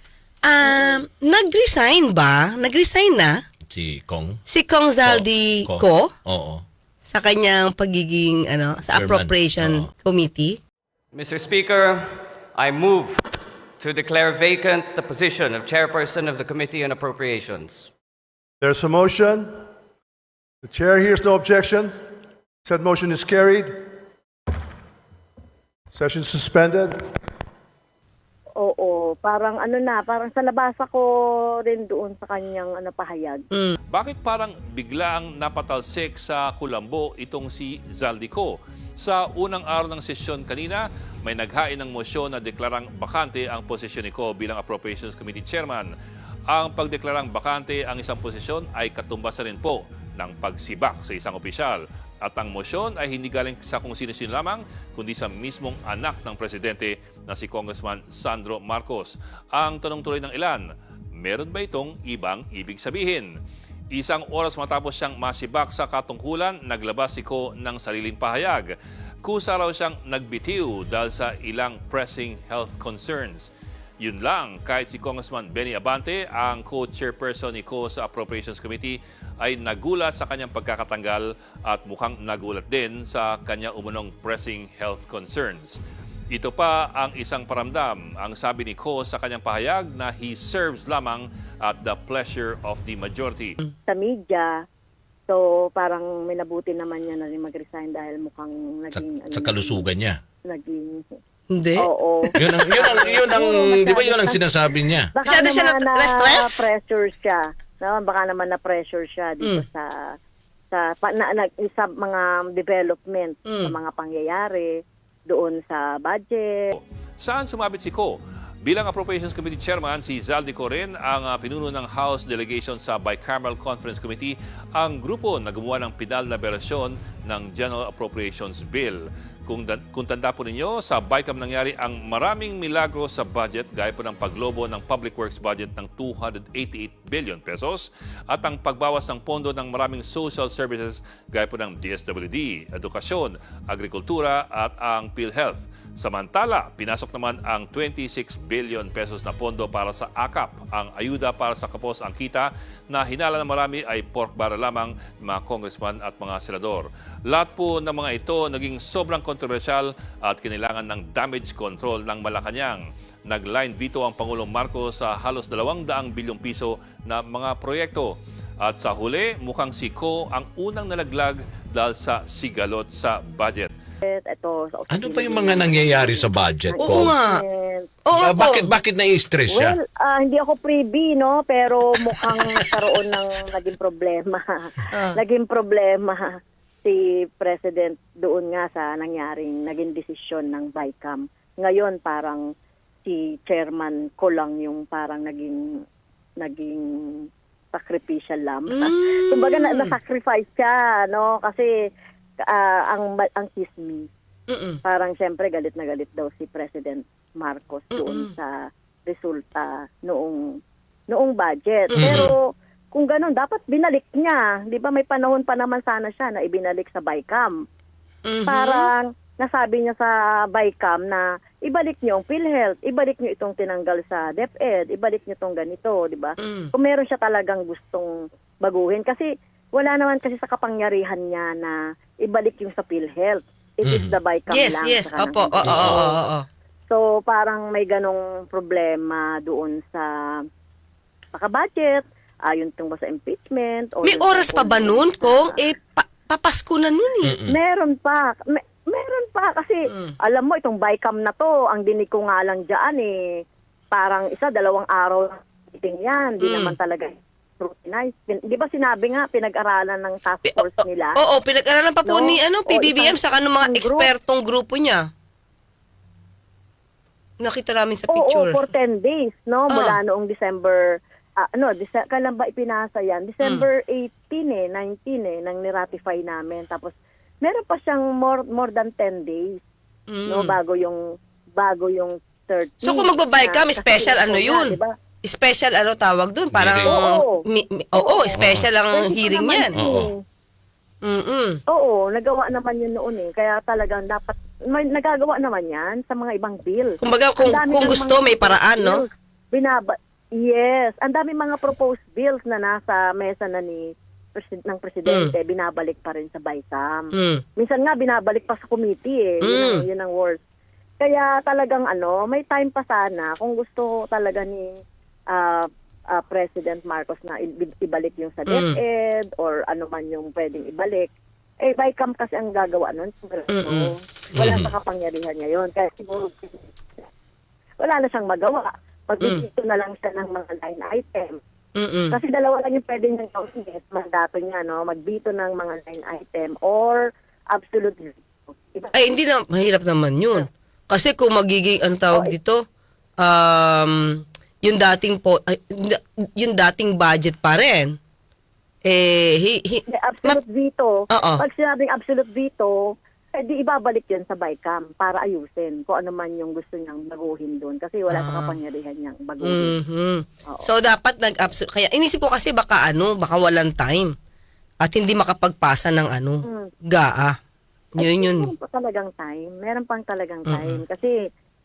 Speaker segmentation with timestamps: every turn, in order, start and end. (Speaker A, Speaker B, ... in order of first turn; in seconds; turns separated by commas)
Speaker A: 0.4-3.4, Speaker B: 0.6-1.0, Speaker C: 3.7-4.4, Speaker A: 4.5-6.1, Speaker C: 5.0-6.6, Speaker A: 7.1-10.6, Speaker C: 8.9-9.9, Speaker D: 11.1-13.2, Speaker D: 13.8-17.9, Speaker E: 18.6-19.6, Speaker E: 20.6-22.0, Speaker E: 22.6-23.9, Speaker E: 25.9-27.0, Speaker B: 28.6-31.1, Speaker B: 31.6-33.5, Speaker A: 33.5-33.8, Speaker F: 33.9-45.9, Speaker F: 46.5-63.3, Speaker F: 63.9-68.7, Speaker F: 69.2-73.5, Speaker F: 74.0-85.8, Speaker F: 86.3-93.5, Speaker B: 93.9-94.5, Speaker B: 95.3-99.9, Speaker C: 98.9-100.2, Speaker B: 100.5-101.1, Speaker A: 101.5-102.4, Speaker B: 101.8-104.5, Speaker C: 102.4-105.1, Speaker B: 105.1-110.0, Speaker A: 105.2-106.6, Speaker B: 110.7-114.7, Speaker A: 113.5-113.7, Speaker B: 115.3-116.7, Speaker F: 116.7-173.7, Speaker B: 174.0-177.9, Speaker C: 174.9-177.1, Speaker A: 176.8-177.4, Speaker A: 178.0-178.7, Speaker C: 178.2-179.8, Speaker B: 179.5-192.4, Speaker A: 184.9-185.2, Speaker B: 193.0-195.7, Speaker B: 196.4-201.7, Speaker A: 198.7-199.9, Speaker B: 202.4-204.1, Speaker A: 204.5-204.8, Speaker B: 204.8-208.5, Speaker A: 207.9-208.3, Speaker B: 209.1-210.5, Speaker B: 211.1-217.6, Speaker A: 211.9-212.3, Speaker C: 212.0-212.3, Speaker A: 218.2-218.9, Speaker B: 218.5-228.1, Speaker A: 226.4-226.7, Speaker B: 228.6-236.1, Speaker C: 233.8-234.2, Speaker A: 234.5-236.4, Speaker C: 235.6-236.0, Speaker B: 236.9-240.1, Speaker B: 241.3-245.6, Speaker A: 244.0-247.3, Speaker C: 247.2-247.6, Speaker B: 247.5-253.2, Speaker B: 253.9-261.2, Speaker A: 256.4-256.8, Speaker A: 260.4-265.1, Speaker B: 262.0-264.1, Speaker A: 267.4-268.6, Speaker B: 268.1-279.6, Speaker A: 269.7-270.0, Speaker A: 280.1-280.5, Speaker B: 280.2-281.0, Speaker B: 281.6-284.9, Speaker A: 282.8-289.8, Speaker C: 286.5-287.0, Speaker B: 286.8-287.3, Speaker B: 288.0-290.2, Speaker C: 288.4-288.7, Speaker C: 289.7-290.1, Speaker A: 291.0-291.6, Speaker B: 291.7-310.4, Speaker A: 297.0-299.0, Speaker A: 305.1-305.3, Speaker A: 307.1-307.4, Speaker A: 309.4-309.8, Speaker B: 311.0-314.8, Speaker B: 315.3-327.0, Speaker A: 318.5-318.8, Speaker A: 323.5-323.9, Speaker C: 324.3-324.7, Speaker B: 327.8-331.4, Speaker A: 331.8-332.2, Speaker B: 332.1-338.9, Speaker A: 338.9-342.6, Speaker A: 343.2-347.9, Speaker A: 348.8-350.4, Speaker B: 349.9-359.7, Speaker A: 351.1-351.4, Speaker A: 358.1-358.5, Speaker A: 359.4-364.1, Speaker A: 364.8-367.4, Speaker A: 367.9-368.5, Speaker B: 368.0-371.1, Speaker A: 370.5-370.8